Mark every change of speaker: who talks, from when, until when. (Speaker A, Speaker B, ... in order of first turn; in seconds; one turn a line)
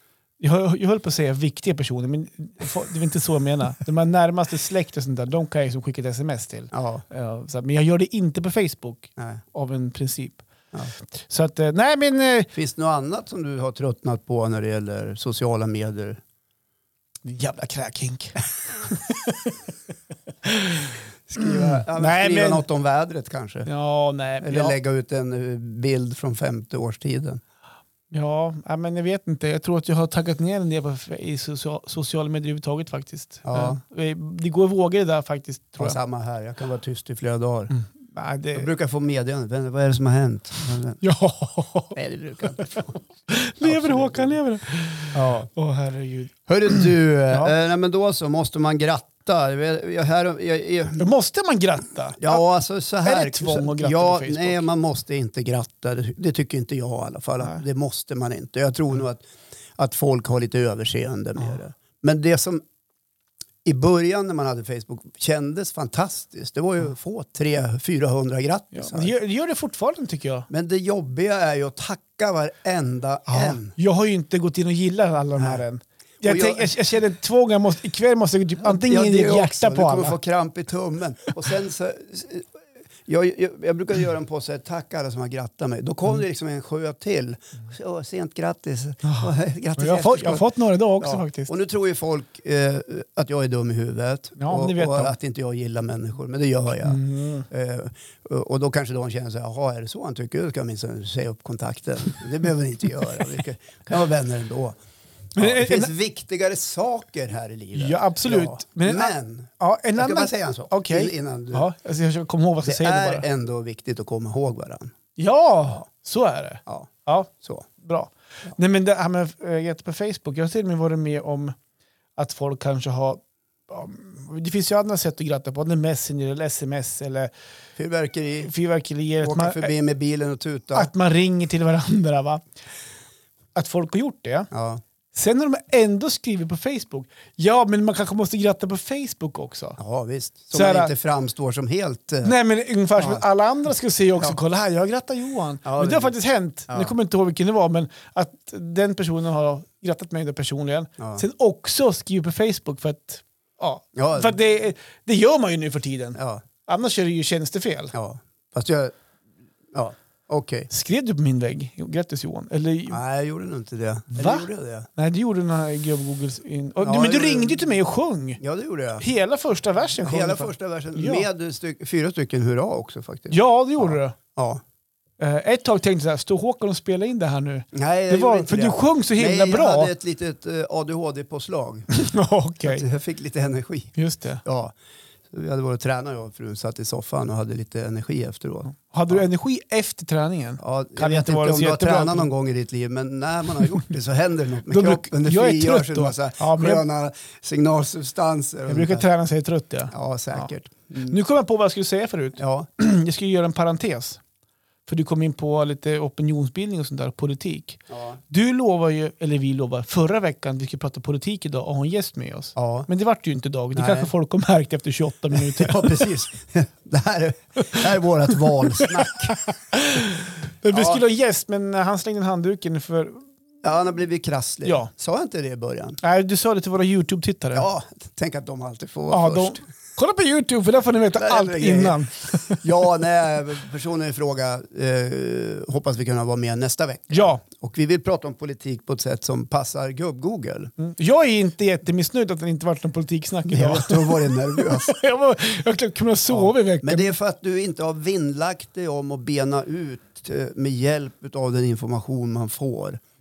Speaker A: 0.4-10.4
Speaker B: 6.7-7.0
Speaker B: 9.2-9.4
Speaker A: 11.2-12.5
Speaker B: 12.5-16.2
Speaker A: 17.2-19.6
Speaker A: 20.4-22.6
Speaker B: 21.3-23.7
Speaker A: 23.6-24.8
Speaker B: 24.4-27.4
Speaker A: 28.1-36.0
Speaker B: 33.4-33.8
Speaker B: 35.8-37.7
Speaker A: 37.7-38.7
Speaker B: 38.5-41.0
Speaker A: 41.0-41.9
Speaker B: 41.9-43.1
Speaker A: 43.3-47.5
Speaker B: 43.6-44.4
Speaker B: 45.1-45.5
Speaker B: 46.5-51.1
Speaker A: 51.0-52.4
Speaker B: 52.2-62.6
Speaker A: 53.0-54.6
Speaker B: 63.6-69.1
Speaker A: 68.7-70.5
Speaker B: 70.5-73.7
Speaker A: 73.3-80.2
Speaker B: 75.4-75.6
Speaker B: 76.2-76.7
Speaker B: 78.6-82.5
Speaker B: 83.0-90.5
Speaker A: 89.0-91.5
Speaker B: 91.0-104.8
Speaker A: 94.4-95.1
Speaker A: 96.8-97.5
Speaker A: 105.3-105.9
Speaker B: 105.3-111.7
Speaker A: 107.8-113.2
Speaker B: 112.6-114.9
Speaker A: 115.2-121.5
Speaker B: 116.7-117.7
Speaker A: 122.2-127.3
Speaker B: 127.8-128.5
Speaker A: 128.4-129.7
Speaker B: 129.2-130.9
Speaker A: 130.7-132.4
Speaker A: 133.5-134.5
Speaker B: 134.5-134.8
Speaker A: 135.1-139.8
Speaker B: 139.8-142.3
Speaker A: 140.5-140.9
Speaker A: 142.2-157.9
Speaker B: 143.0-143.2
Speaker B: 145.6-146.1
Speaker B: 151.0-151.2
Speaker B: 153.9-154.3
Speaker B: 156.1-156.4
Speaker B: 157.9-158.9
Speaker B: 159.7-160.7
Speaker A: 160.7-163.0
Speaker B: 162.9-164.9
Speaker A: 164.1-168.4
Speaker B: 166.8-167.7
Speaker B: 168.4-169.0
Speaker A: 169.0-171.2
Speaker B: 170.0-174.6
Speaker A: 173.3-174.2
Speaker A: 175.2-179.9
Speaker B: 177.7-181.9
Speaker A: 181.9-182.8
Speaker B: 182.6-184.7
Speaker A: 184.0-184.4
Speaker B: 185.3-189.2
Speaker A: 188.7-192.3
Speaker B: 190.6-199.1
Speaker A: 194.7-196.8
Speaker A: 198.7-200.5
Speaker B: 199.9-201.2
Speaker A: 201.1-204.2
Speaker B: 202.4-202.7
Speaker A: 204.9-216.0
Speaker B: 207.9-208.2
Speaker B: 212.6-212.9
Speaker B: 213.7-214.1
Speaker B: 215.3-219.4
Speaker A: 218.6-223.3
Speaker B: 220.7-221.0
Speaker B: 223.6-226.0
Speaker A: 224.6-224.9
Speaker A: 226.0-227.7
Speaker B: 227.5-229.6
Speaker A: 229.1-232.6
Speaker B: 231.1-240.7
Speaker A: 237.1-237.4
Speaker A: 240.8-247.1
Speaker B: 243.5-245.0
Speaker B: 246.3-253.0